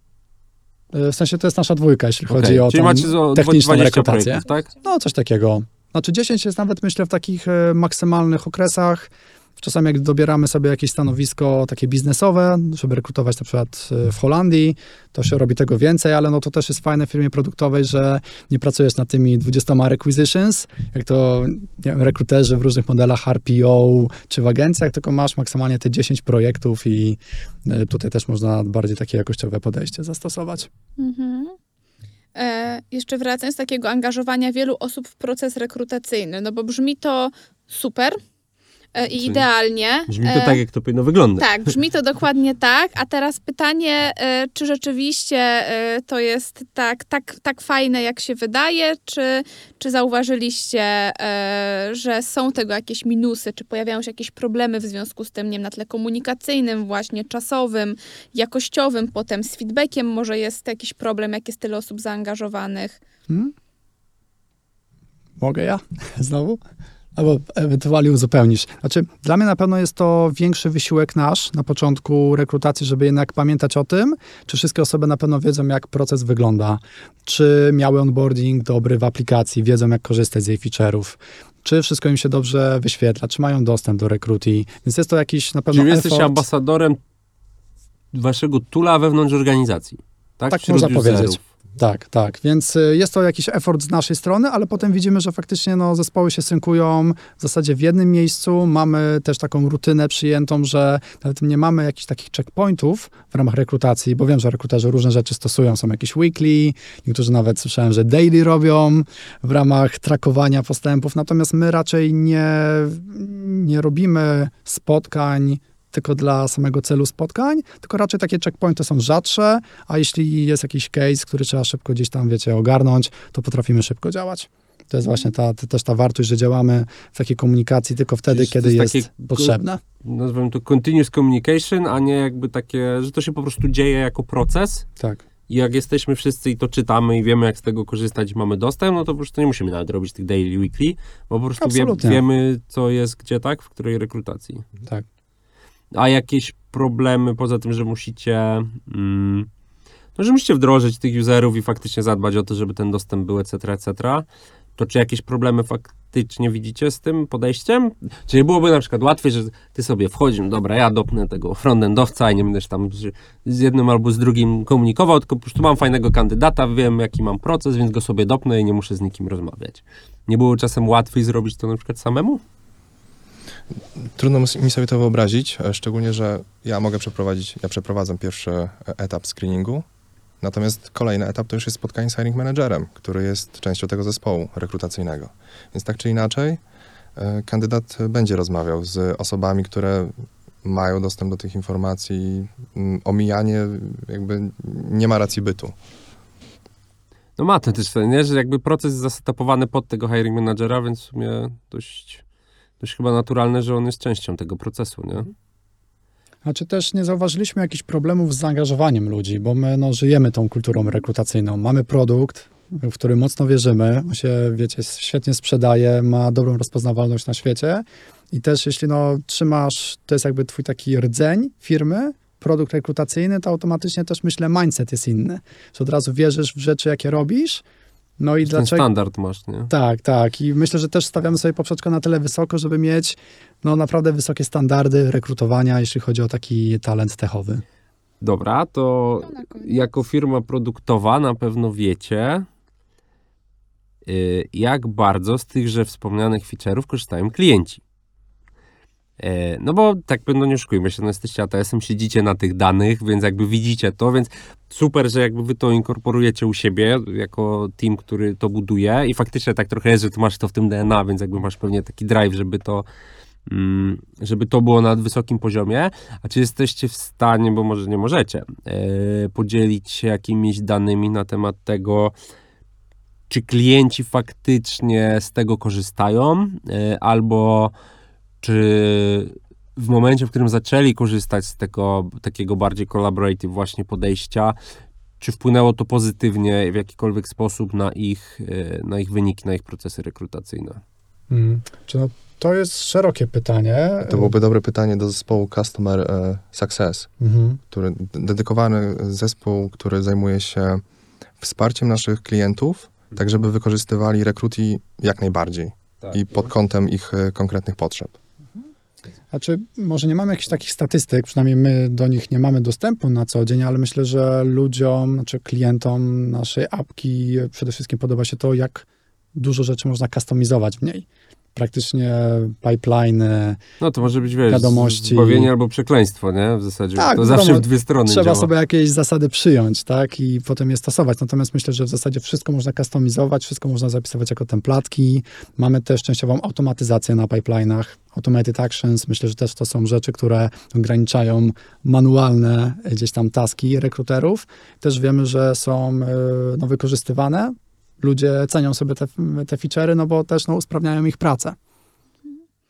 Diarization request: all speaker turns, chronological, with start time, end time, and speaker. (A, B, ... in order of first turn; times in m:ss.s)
0:00.9-0:30.7 A
0:02.3-0:04.7 B
0:31.0-0:31.6 C
0:32.3-0:38.2 C
0:38.9-0:40.6 C
0:39.2-0:39.4 B
0:40.1-0:41.5 B
0:41.4-1:03.0 C
1:05.4-1:06.6 A
1:07.2-1:26.4 A
1:25.7-1:27.0 B
1:28.1-1:31.4 B
1:30.5-2:09.8 A
2:08.3-2:14.8 B
2:15.0-2:15.2 A
2:15.5-2:24.6 B
2:21.6-2:22.2 A
2:25.9-2:29.5 B
2:30.2-2:34.2 B
2:34.8-2:52.4 B
2:54.0-2:59.8 D
3:00.4-3:06.6 D
3:07.2-3:15.7 D
3:17.4-3:22.2 B
3:22.8-3:25.3 B
3:26.4-3:47.6 A
3:48.2-3:48.8 A
3:48.4-3:49.7 B
3:49.7-3:57.6 A
3:58.2-4:02.5 B
3:59.2-3:59.9 C
4:04.0-4:07.8 B
4:09.2-4:22.8 B
4:23.4-4:32.1 B
4:33.3-4:37.7 B
4:38.4-4:44.6 B
4:45.2-4:50.8 B
4:51.3-4:54.3 A
4:54.0-4:57.1 D
4:57.2-4:57.6 A
4:57.7-5:00.8 D
5:01.4-5:08.2 D
5:09.3-5:23.6 A
5:23.8-5:28.5 B
5:24.5-5:25.5 A
5:27.0-5:51.6 A